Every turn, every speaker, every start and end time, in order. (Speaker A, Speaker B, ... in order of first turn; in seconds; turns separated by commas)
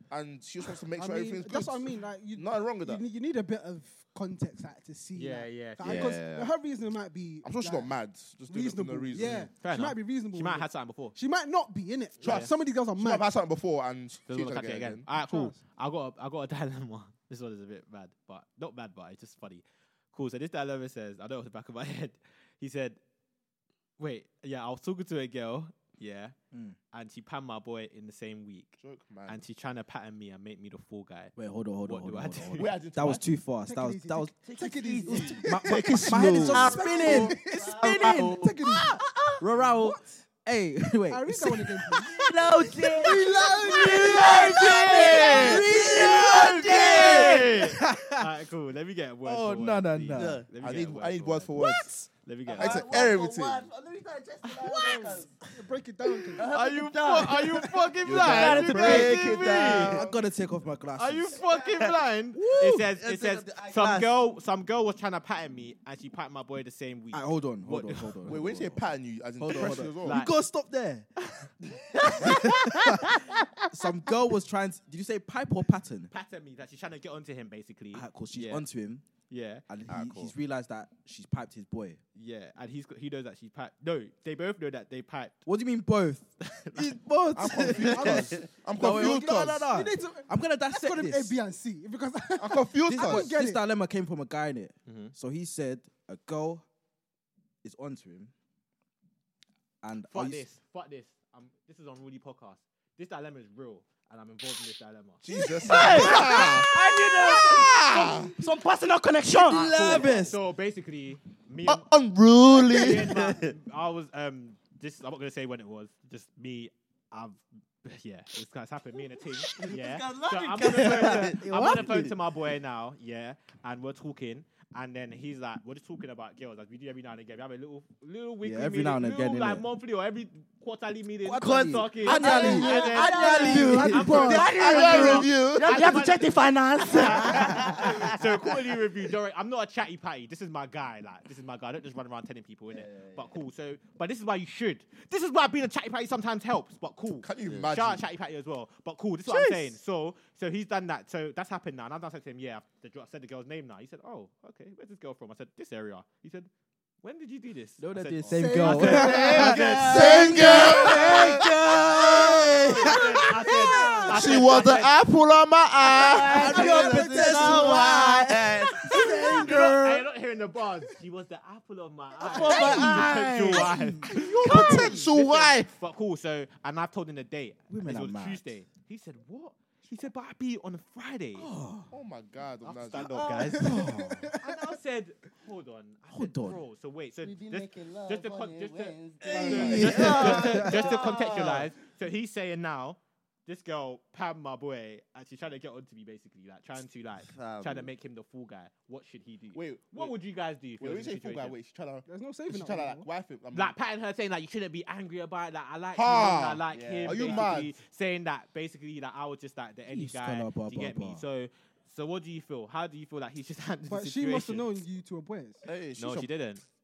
Speaker A: 0.1-3.0, Speaker B: 0.9-8.0, Speaker C: 5.2-6.2, Speaker D: 5.8-6.5, Speaker A: 7.4-9.5, Speaker B: 8.5-13.3, Speaker C: 9.2-11.2, Speaker C: 12.2-12.5, Speaker A: 12.2-15.1, Speaker C: 14.3-23.0, Speaker B: 15.2-15.6, Speaker C: 24.0-26.4, Speaker E: 26.5-26.8, Speaker C: 26.9-32.7, Speaker A: 28.8-29.4, Speaker E: 31.4-34.4, Speaker A: 32.6-33.2, Speaker B: 33.6-39.0, Speaker D: 34.5-39.4, Speaker E: 35.4-48.3, Speaker A: 35.6-37.2, Speaker B: 39.6-40.2, Speaker B: 41.1-42.2, Speaker D: 42.0-47.6, Speaker B: 43.0-44.5, Speaker C: 43.7-53.0, Speaker E: 49.2-50.4, Speaker D: 50.1-50.5, Speaker A: 50.6-52.0, Speaker D: 52.5-55.3, Speaker A: 52.5-53.7, Speaker C: 54.5-55.3, Speaker B: 55.3-56.5, Speaker D: 56.4-60.1, Speaker C: 56.4-60.0, Speaker A: 58.0-60.1, Speaker E: 58.9-61.4, Speaker C: 61.0-68.2, Speaker D: 61.4-62.0, Speaker E: 62.4-62.9, Speaker D: 62.9-64.1, Speaker E: 67.1-68.8, Speaker A: 68.2-70.3, Speaker E: 69.4-71.1, Speaker C: 69.5-70.3, Speaker C: 71.2-71.5, Speaker D: 71.9-72.5, Speaker C: 72.0-73.4, Speaker E: 72.1-73.2, Speaker E: 73.7-76.1, Speaker C: 76.1-78.7, Speaker E: 77.9-79.0, Speaker C: 79.3-79.6, Speaker E: 79.7-82.0, Speaker D: 79.9-80.3, Speaker C: 82.2-85.3, Speaker E: 85.5-91.3, Speaker C: 86.5-86.9, Speaker A: 87.4-89.7, Speaker B: 87.8-93.6, Speaker D: 88.0-88.5, Speaker A: 92.4-93.3, Speaker E: 92.9-96.7, Speaker C: 94.9-95.1, Speaker E: 97.6-98.3, Speaker E: 99.8-100.4, Speaker C: 100.1-106.2, Speaker A: 105.2-108.4, Speaker D: 105.3-110.3, Speaker E: 109.3-110.4, Speaker C: 109.6-111.9, Speaker A: 111.7-113.0, Speaker D: 112.4-113.5, Speaker C: 112.7-156.5, Speaker D: 119.4-122.2, Speaker E: 121.4-121.9, Speaker E: 128.4-129.7, Speaker E: 131.2-134.3, Speaker D: 131.4-138.5, Speaker B: 132.2-134.5, Speaker A: 134.4-136.0, Speaker D: 142.7-143.3, Speaker A: 147.2-148.1, Speaker C: 157.0-159.9, Speaker E: 157.8-161.5, Speaker B: 158.3-159.6, Speaker D: 158.8-163.0, Speaker A: 158.9-162.6, Speaker B: 160.1-161.0, Speaker E: 162.1-164.4, Speaker C: 162.4-164.9, Speaker D: 163.7-164.6, Speaker A: 164.1-166.8, Speaker D: 165.8-169.9, Speaker E: 166.1-169.6, Speaker B: 166.3-167.9, Speaker A: 168.9-169.8, Speaker C: 169.1-181.5, Speaker D: 172.2-173.7, Speaker E: 172.3-174.7, Speaker A: 172.4-173.4, Speaker A: 174.1-175.7, Speaker D: 174.4-175.0, Speaker E: 177.7-178.4, Speaker E: 181.4-181.9, Speaker A: 181.9-183.2, Speaker C: 182.6-183.8, Speaker D: 182.9-183.6, Speaker B: 183.5-184.7, Speaker E: 183.6-184.4, Speaker C: 184.4-201.6, Speaker E: 186.1-186.6, Speaker D: 187.2-191.7, Speaker E: 189.3-191.0, Speaker D: 197.2-197.9, Speaker A: 199.5-200.1, Speaker A: 200.8-203.8, Speaker B: 202.1-203.1, Speaker C: 203.5-214.7, Speaker A: 205.9-207.8, Speaker D: 206.7-207.6, Speaker E: 209.9-211.2, Speaker B: 213.9-215.7, Speaker A: 215.6-216.3, Speaker C: 216.0-216.6